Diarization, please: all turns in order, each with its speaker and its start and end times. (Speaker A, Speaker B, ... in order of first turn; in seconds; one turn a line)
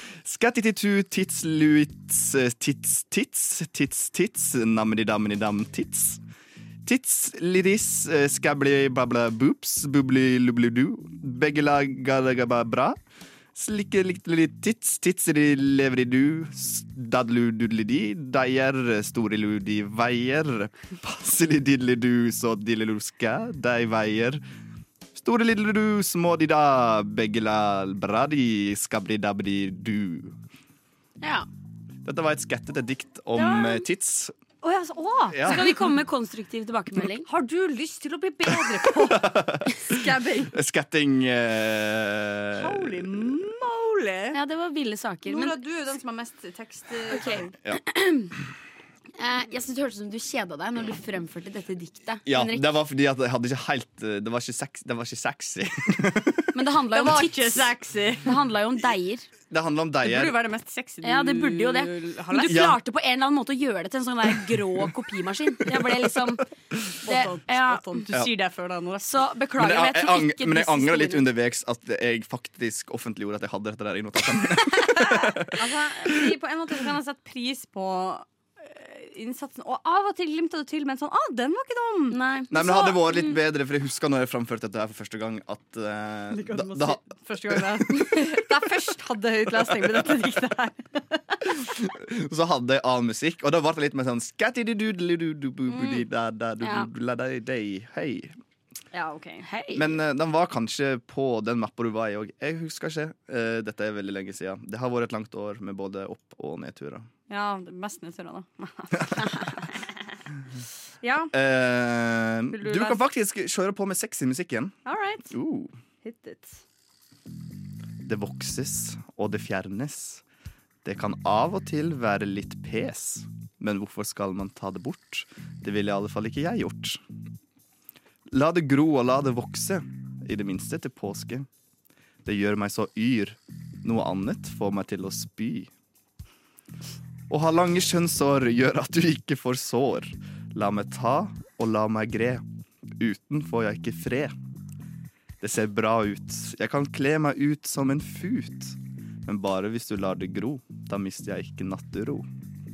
Speaker A: 0.2-6.2
Speaker A: 6.8-13.0
Speaker A: 13.5-24.4
Speaker A: 25.1-30.4
Speaker B: 31.2-31.4
Speaker A: 32.0-34.3
Speaker B: 33.4-33.8
Speaker C: 34.6-35.6
Speaker A: 35.3-35.8
Speaker B: 35.4-37.3
Speaker C: 37.2-40.5
Speaker A: 39.0-43.1
Speaker C: 42.5-44.4
Speaker B: 44.3-45.6
Speaker C: 45.2-47.5
Speaker B: 47.1-48.3
Speaker B: 49.2-52.6
Speaker A: 52.2-56.5
Speaker B: 56.5-59.3
Speaker C: 56.9-58.3
Speaker A: 59.5-60.3
Speaker C: 60.0-62.7
Speaker B: 61.0-66.5
Speaker A: 62.5-62.8
Speaker B: 67.0-68.1
Speaker C: 67.0-69.1
Speaker B: 69.0-71.3
Speaker A: 69.6-75.5
Speaker C: 75.5-82.2
Speaker B: 82.1-83.3
Speaker A: 82.5-88.3
Speaker C: 86.3-91.4
Speaker A: 91.6-98.3
Speaker B: 95.8-96.0
Speaker B: 96.6-96.9
Speaker C: 98.9-99.5
Speaker B: 99.4-99.9
Speaker A: 99.7-107.1
Speaker C: 107.3-109.7
Speaker C: 111.0-111.3
Speaker A: 111.3-114.8
Speaker C: 112.5-113.0
Speaker C: 114.8-115.3
Speaker A: 115.3-115.7
Speaker C: 116.0-116.6
Speaker A: 118.0-120.2
Speaker A: 120.8-127.0
Speaker A: 128.3-131.5
Speaker A: 132.2-135.7
Speaker A: 137.3-142.4
Speaker A: 143.0-144.3
Speaker A: 145.4-152.3